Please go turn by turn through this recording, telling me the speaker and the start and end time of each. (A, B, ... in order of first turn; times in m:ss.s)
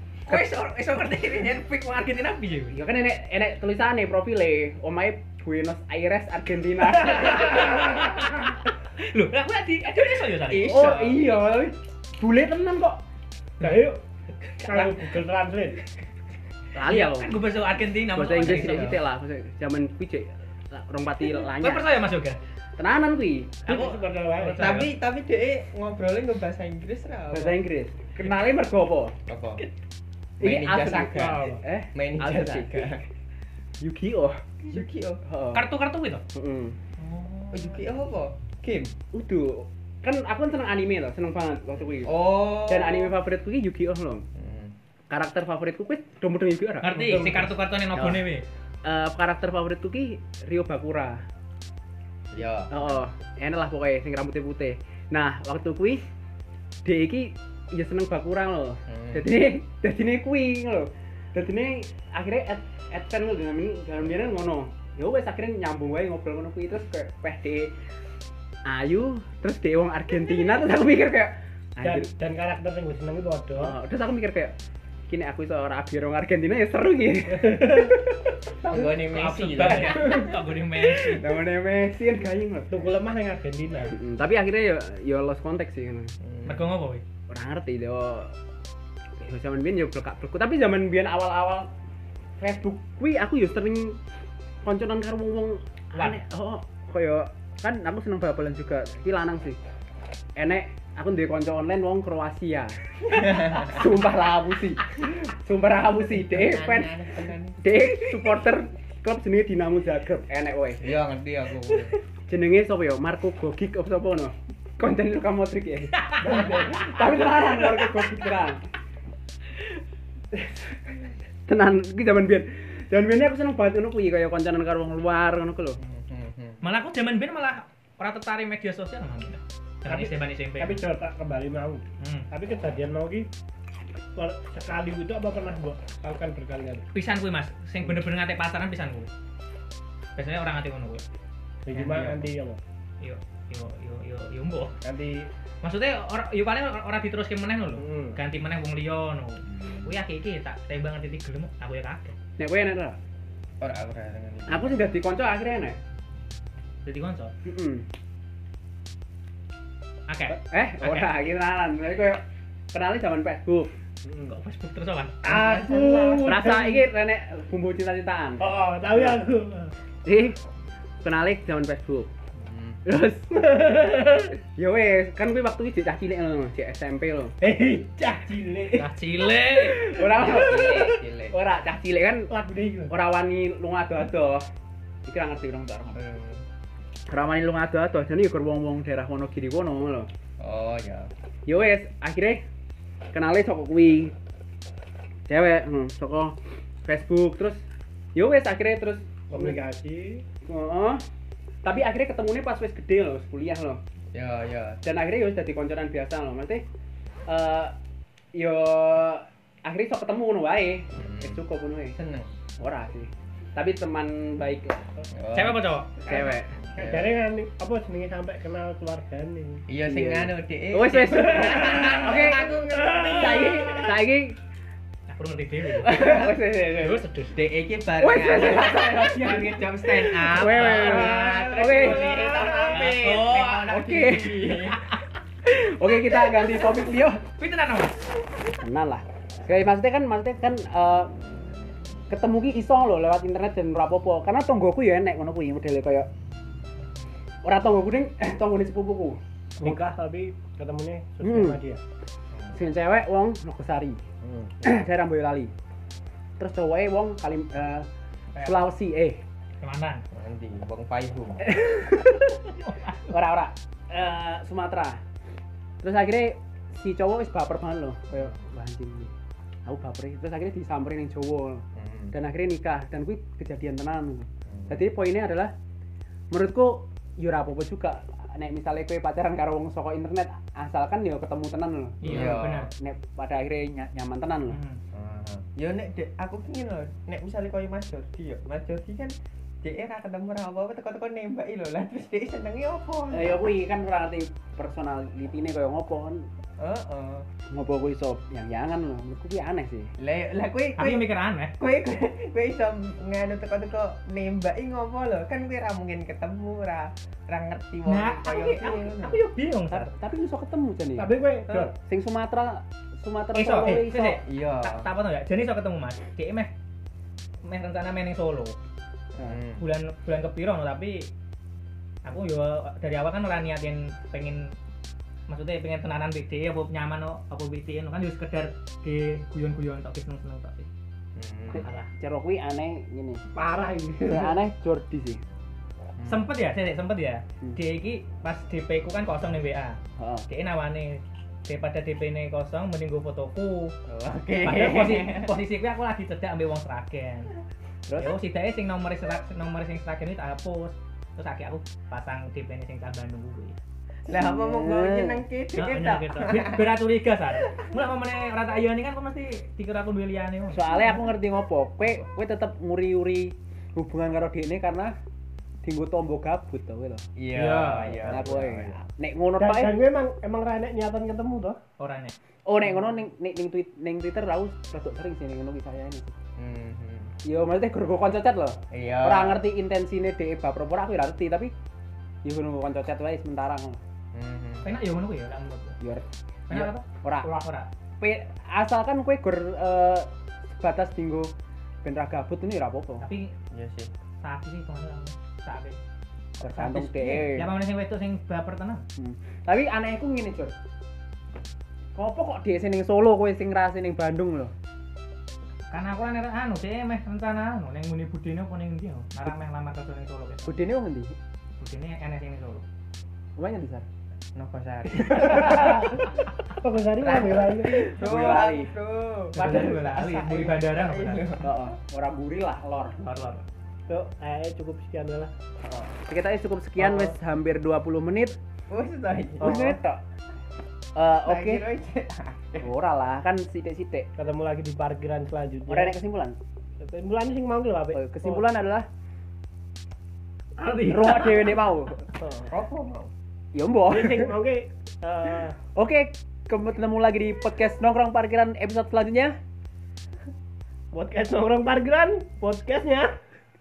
0:00.3-0:02.7 A
0:02.7-0:07.8 B
0:07.4-0:11.2 A
0:10.5-0:13.0 B
0:13.6-0:14.0 C
0:14.4-0:15.0 A
0:14.6-0:15.8 C
0:16.7-0:17.3 B
0:16.8-0:19.0 A
0:18.1-0:21.9 B
0:18.6-0:19.0 D
0:21.6-0:22.4 A
0:22.8-0:23.5 B
0:23.6-0:24.9 A
0:23.7-0:24.7 C
0:24.6-0:27.6 D
0:27.3-0:29.1 B
0:29.2-0:29.6 D
0:30.4-0:33.0 B
0:30.4-0:33.0 D
0:31.1-0:31.6 C
0:33.8-0:35.6 B
0:34.6-0:35.2 D
0:35.5-0:36.2 A
0:36.3-0:36.8 B
0:37.0-0:37.8 A
0:37.5-0:38.9 D
0:39.1-0:44.2 B
0:42.0-0:43.2 D
0:44.4-0:44.7 D
0:45.1-0:47.0 B
0:46.8-0:48.4 A
0:46.9-0:47.5 C
0:47.9-0:48.2 B
0:48.8-0:51.2 B
0:52.3-0:53.0 D
0:52.7-0:56.0 B
0:56.8-1:07.7 B
0:58.9-0:59.3 D
1:08.6-1:12.1 B
1:11.8-1:13.8 C
1:13.6-1:14.5 B
1:15.1-1:18.3 B
1:17.4-1:17.9 C
1:18.6-1:20.2 D
1:18.9-1:21.3 A
1:19.6-1:22.7 B
1:22.7-1:24.0 C
1:23.9-1:26.1 B
1:26.2-1:26.6 D
1:26.4-1:27.0 A
1:27.3-1:28.3 B
1:29.2-1:31.7 B
1:32.4-1:34.0 B
1:34.6-1:39.6 B
1:40.4-1:47.1 B
1:43.1-1:43.9 D
1:46.1-1:47.6 D
1:47.6-1:50.8 B
1:50.8-1:52.0 D
1:52.3-1:58.6 B
1:55.9-1:57.9 A
2:01.5-2:05.8 B
2:05.8-2:06.6 D
2:06.6-2:10.8 A
2:09.9-2:13.3 C
2:12.0-2:12.3 A
2:14.2-2:16.8 C
2:16.9-2:19.1 A
2:20.2-2:21.0 A
2:21.6-2:22.6 C
2:21.7-2:22.3 A
2:23.0-2:24.7 A
2:24.8-2:25.3 C
2:25.6-2:32.1 A
2:27.8-2:28.2 C
2:29.5-2:29.9 D
2:32.4-2:33.0 B
2:33.6-2:34.9 D
2:34.5-2:35.8 B
2:36.8-2:37.3 A
2:37.4-2:37.8 B
2:40.1-2:41.1 A
2:40.5-2:43.7 B
2:44.0-2:44.3 C
2:44.3-2:45.4 A
2:45.2-2:46.9 C
2:45.4-2:46.4 D
2:46.2-2:49.2 B
2:48.4-2:49.7 C
2:50.0-2:50.4 B
2:51.0-2:52.1 B
2:52.4-2:52.8 D
2:52.8-2:57.3 B
2:53.3-2:54.3 C
2:57.4-2:58.9 C
2:58.7-2:59.9 A
2:59.6-3:02.3 B
3:00.0-3:01.4 D
3:02.3-3:02.9 C
3:02.9-3:04.4 B
3:05.0-3:06.0 B
3:05.9-3:06.4 D
3:07.1-3:10.1 B
3:10.4-3:11.1 D
3:11.4-3:12.4 B
3:13.1-3:14.1 B
3:15.3-3:17.6 B
3:18.1-3:19.6 B
3:19.3-3:20.2 C
3:20.4-3:21.0 B
3:21.6-3:23.8 B
3:24.1-3:24.8 D
3:24.8-3:26.6 B
3:27.3-3:27.7 B
3:28.3-3:32.0 B
3:31.0-3:32.3 D
3:32.6-3:34.8 B
3:35.1-3:35.7 D
3:35.3-3:36.0 A
3:36.0-3:36.6 B
3:36.1-3:39.6 C
3:36.6-3:37.1 D
3:39.7-3:43.9 D
3:39.8-3:42.6 B
3:41.1-3:41.9 C
3:42.8-3:43.6 C
3:43.1-3:44.4 B
3:45.1-3:46.2 A
3:45.8-3:47.0 B
3:46.0-3:46.4 D
3:46.8-3:47.3 A
3:47.3-3:54.8 D
3:48.0-3:52.3 B
3:50.4-3:53.7 A
3:53.7-3:54.7 B
3:55.4-3:57.2 B
3:57.4-3:58.0 A
3:58.4-4:01.1 B
4:02.1-4:06.1 B
4:07.4-4:09.8 B
4:09.6-4:11.8 C
4:11.2-4:11.6 B
4:12.5-4:14.0 B
4:14.2-4:14.8 D
4:14.6-4:15.5 B
4:16.4-4:17.9 B
4:18.4-4:18.6 A
4:18.4-4:19.2 B
4:19.6-4:20.0 A
4:20.1-4:21.5 D
4:21.4-4:22.5 B
4:22.5-4:23.2 A
4:23.1-4:25.0 B
4:25.8-4:29.1 B
4:29.6-4:35.5 B
4:31.8-4:32.1 D
4:34.5-4:34.8 D
4:36.3-4:44.6 B
4:42.0-4:42.7 A
4:42.0-4:42.7 D
4:44.5-4:44.8 A
4:44.9-4:53.5 D
4:53.1-4:56.3 B
4:56.6-4:57.3 D
4:57.5-4:59.9 B
5:00.0-5:01.0 D
5:00.8-5:01.5 A
5:01.6-5:09.2 D
5:07.8-5:09.9 A
5:09.7-5:11.1 B
5:11.0-5:11.7 C
5:11.8-5:14.2 B
5:13.3-5:16.5 A
5:13.6-5:14.0 C
5:14.2-5:14.9 D
5:17.4-5:18.6 A
5:19.1-5:19.6 D
5:19.6-5:21.1 A
5:22.0-5:24.5 A
5:25.3-5:30.7 A
5:31.2-5:31.6 D
5:31.5-5:31.9 A
5:31.5-5:33.2 B
5:33.3-5:34.3 C
5:34.0-5:35.2 B
5:36.0-5:36.2 D
5:36.0-5:43.7 A
5:40.0-5:40.3 B
5:43.9-5:45.3 D
5:44.4-5:47.3 A
5:47.9-5:48.1 B
5:48.0-5:53.6 A
5:54.1-5:56.7 D
5:54.1-5:55.2 B
5:55.5-6:01.0 A
6:00.5-6:04.9 B
6:05.6-6:07.0 B
6:07.2-6:08.8 D
6:07.3-6:08.3 A
6:08.1-6:09.8 B
6:09.4-6:11.6 C
6:11.8-6:12.1 A
6:12.5-6:16.1 B
6:16.4-6:17.1 D
6:17.2-6:21.5 B
6:18.7-6:19.4 D
6:22.2-6:23.8 B
6:24.1-6:24.7 D
6:24.6-6:25.8 A
6:25.8-6:27.3 B
6:26.5-6:27.7 A
6:28.0-6:31.3 B
6:31.8-6:33.0 B
6:33.0-6:33.3 A
6:33.5-6:33.9 D
6:34.2-6:35.8 A
6:36.4-6:37.5 B
6:36.4-6:38.8 A
6:39.0-6:40.5 B
6:42.0-6:44.5 B
6:45.7-6:50.6 A
6:50.4-6:51.1 B
6:51.6-6:52.6 A
6:53.4-6:53.8 B
6:54.3-6:55.9 D
6:55.1-6:56.0 C
6:55.2-6:55.6 B
6:56.6-6:57.9 C
6:57.0-7:01.5 D
6:57.6-6:58.7 B
6:59.3-7:00.1 B
6:59.3-7:01.4 A
7:01.4-7:03.0 B
7:03.0-7:03.4 A
7:03.9-7:05.3 C
7:05.6-7:08.4 B
7:06.8-7:07.1 C
7:08.7-7:09.5 D
7:09.4-7:09.8 C
7:09.4-7:10.0 B
7:11.0-7:11.6 B
7:11.2-7:12.7 D
7:12.6-7:14.1 B
7:14.2-7:16.0 C
7:15.7-7:16.4 B
7:16.8-7:18.5 C
7:17.9-7:18.9 B
7:20.6-7:21.5 A
7:20.9-7:22.0 B
7:22.2-7:22.5 C
7:22.5-7:23.1 D
7:23.5-7:24.3 B
7:23.9-7:25.6 C
7:25.7-7:29.4 B
7:30.9-7:33.1 C